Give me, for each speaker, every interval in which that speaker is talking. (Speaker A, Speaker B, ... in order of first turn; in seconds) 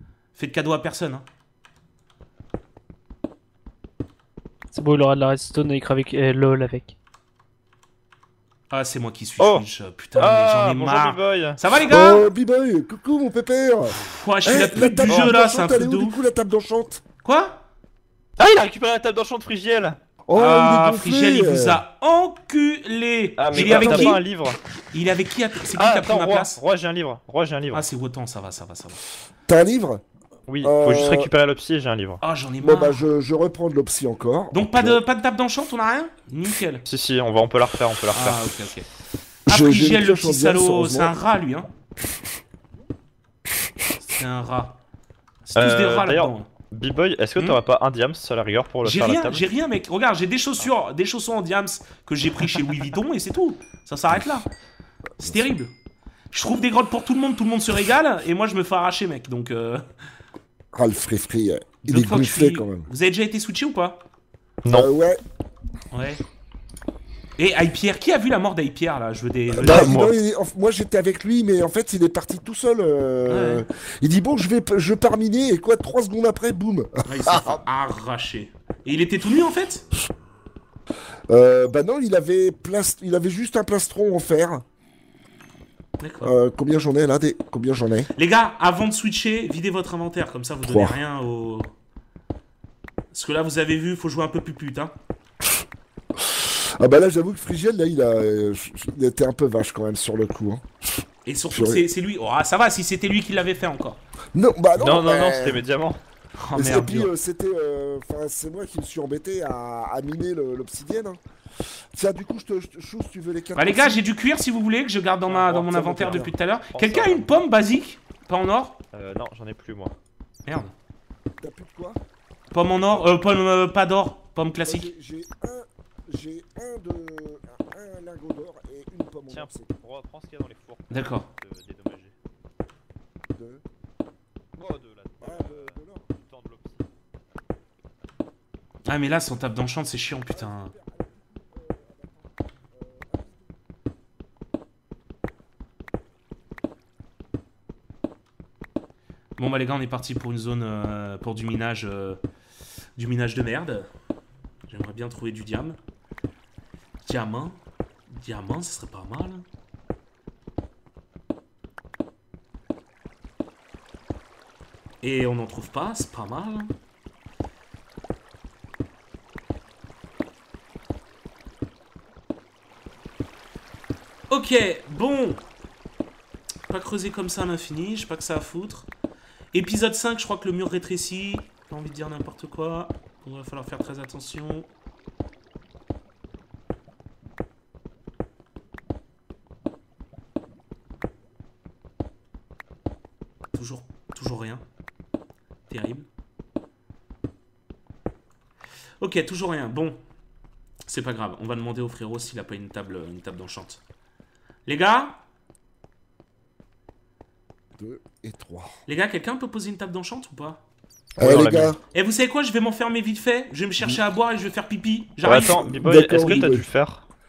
Speaker A: 0.3-1.2, 8.7-12.3, 13.9-16.2, 17.2-17.6, 20.3-24.2, 24.9-26.6, 27.7-29.0, 32.2-33.0, 34.5-36.8, 38.1-38.9, 39.5-41.7, 43.9-44.8, 45.5-46.5, 48.8-54.5, 55.2-55.7, 56.3-59.8, 61.8-64.0, 65.9-66.2, 67.4-70.1, 73.3-73.6, 77.0-79.8, 86.0-86.3, 88.2-91.7, 93.1-94.9, 101.2-104.0, 106.3-107.1, 113.5-118.8, 120.5-120.7, 122.5-124.9, 130.9-131.3, 138.9-140.7, 149.4-152.2, 152.9-153.9, 154.7-155.8, 157.0-157.6, 158.1-159.4, 165.0-166.7, 174.3-175.4, 176.7-178.9, 179.5-184.7, 193.5-194.6, 195.7-196.1, 199.0-200.0, 200.8-203.8, 204.7-205.2, 208.8-210.6, 211.9-216.6
Speaker B: 4.7-6.9
Speaker C: 9.4-11.6, 14.8-15.3, 18.4-20.0, 23.4-24.6, 25.7-27.9, 30.5-32.2, 36.8-38.4, 45.5-49.5, 64.6-64.9, 69.6-70.2, 104.8-106.0, 115.2-117.4, 118.9-120.0, 122.7-123.1, 129.3-132.2, 134.6-136.9, 211.2-211.8, 215.2-217.1
Speaker D: 11.9-17.0, 20.3-21.8, 23.5-24.1, 29.5-30.0, 30.6-31.3, 32.6-35.0, 39.5-41.2, 55.2-55.5, 60.7-62.9, 64.7-65.2, 69.6-77.6, 81.3-84.6, 86.2-88.1, 90.6-91.0, 96.4-100.6, 101.5-101.8, 104.3-105.6, 106.5-111.2, 111.9-114.0, 115.6-116.3, 121.4-122.0, 124.6-129.7, 133.3-133.6, 134.6-136.1, 140.3-143.6, 207.8-208.8, 211.2-211.8, 215.4-216.7